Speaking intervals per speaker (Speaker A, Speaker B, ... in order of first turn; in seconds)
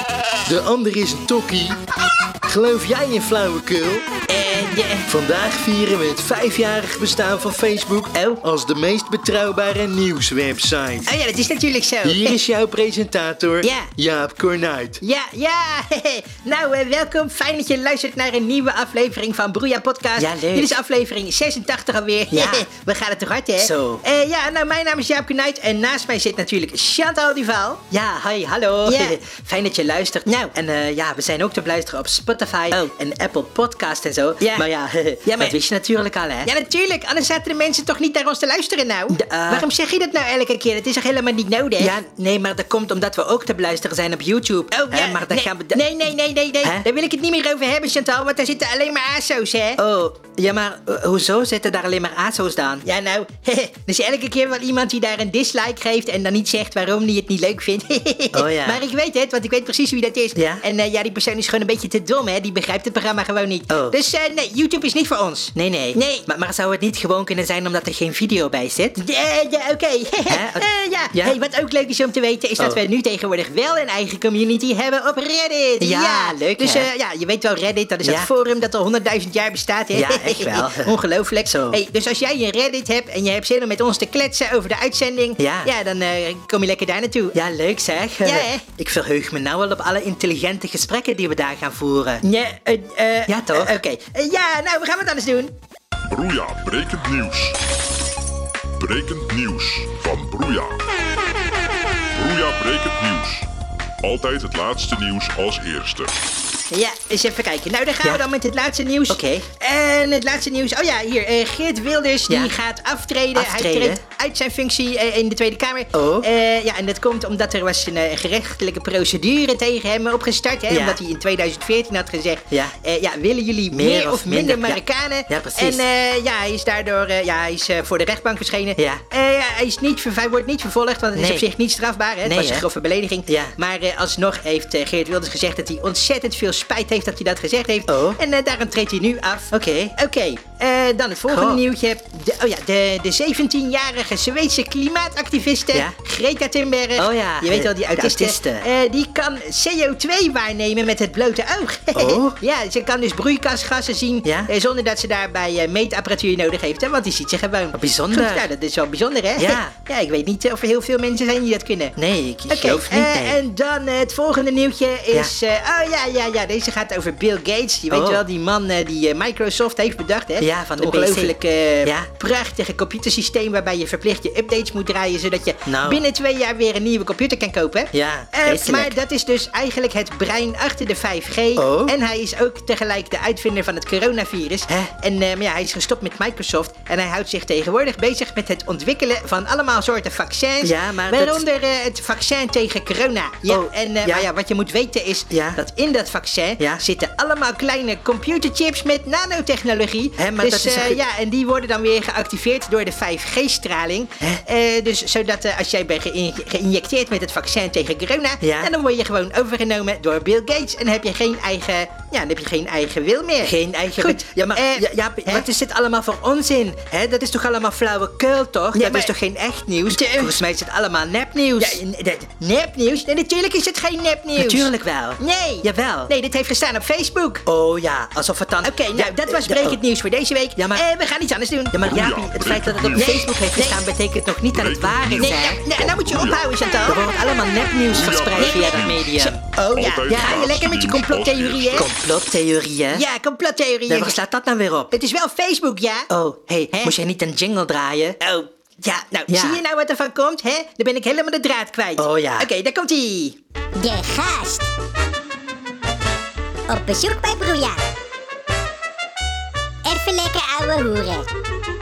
Speaker A: 0.5-1.8, 2.5-4.1, 5.1-11.1, 12.0-15.0
Speaker B: 4.3-5.1, 11.1-12.4, 13.6-13.9, 15.0-27.8, 28.9-29.2, 35.3-35.6, 36.5-41.9, 44.7-49.8, 52.9-66.2, 69.0-87.4, 88.2-88.6, 92.2-95.5, 106.7-161.9, 162.5-215.5, 218.7-219.1, 219.9-220.4, 221.6-227.4, 228.6-231.9, 232.9-233.8, 235.2-237.0, 238.4-241.9, 242.9-244.2, 244.9-246.1, 248.2-253.4
Speaker C: 20.2-20.8, 22.3-22.7, 23.6-24.0, 27.9-36.5, 39.1-39.7, 41.8-45.9, 49.8-52.9, 58.3-58.8, 60.4-60.6, 63.7-64.0, 65.5-69.0, 70.3-71.4, 75.8-76.9, 78.0-78.3, 79.9-81.8, 85.4-85.7, 87.3-92.3, 93.3-93.8, 109.1-109.5, 112.3-112.5, 113.3-114.0, 115.9-116.3, 120.7-121.0, 122.5-122.8, 123.7-125.8, 131.2-131.5, 132.2-132.7, 133.3-133.6, 137.9-138.2, 139.5-140.0, 141.3-141.6, 147.0-148.7, 151.9-152.4, 154.2-154.5, 157.7-158.5, 159.4-159.8, 162.0-163.4, 167.9-168.2, 170.4-172.1, 175.7-176.0, 177.9-179.0, 181.6-181.9, 190.6-191.4, 193.5-194.3, 195.3-195.6, 196.6-196.8, 200.2-201.0, 208.4-208.7, 213.4-222.1, 224.4-226.1, 227.5-229.8, 230.6-230.8, 231.7-235.6, 236.9-239.5, 240.1-240.5, 241.7-243.0, 243.9-244.9, 246.1-248.2, 249.3-249.6, 252.0-252.5
Speaker D: 96.1-97.6, 98.8-100.8, 102.2-103.5, 104.0-106.1, 231.8-233.3, 234.5-236.6, 237.8-241.9
Speaker E: 253.8-254.7, 256.7-257.8, 259.8-261.3